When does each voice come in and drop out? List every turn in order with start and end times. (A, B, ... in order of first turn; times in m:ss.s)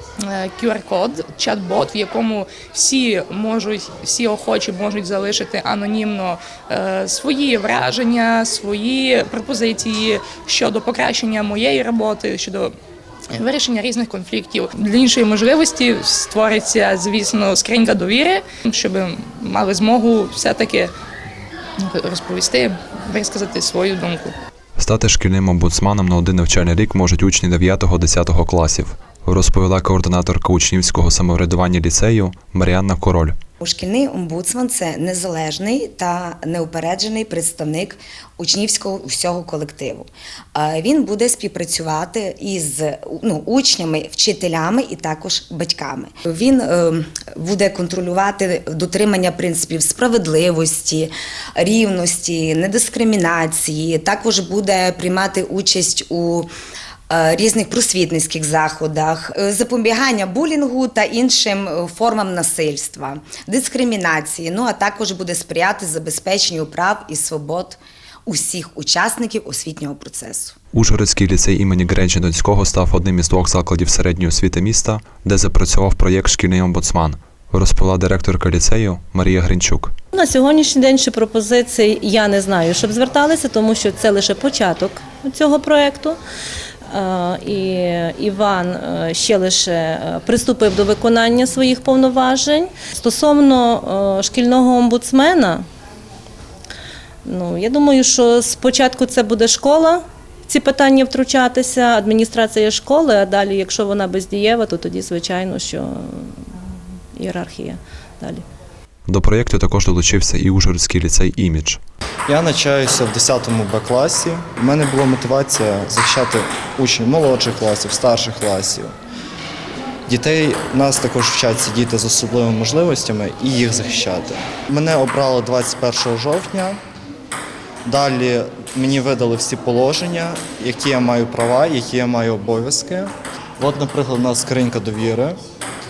0:00.2-0:12.7 A
0:13.3-0:20.9 A
0:21.8-0:24.3 A
0:24.8-0:33.3 B
0:33.6-0:56.5 C
0:57.1-1:10.5 C
1:10.7-1:19.9 B
1:20.1-1:26.2 D
1:26.9-1:35.6 D
1:37.2-1:46.6 D
1:47.2-1:48.4 D
1:49.1-1:51.8 B
1:52.3-1:58.9 E
2:00.1-2:06.8 E
2:07.8-2:15.4 E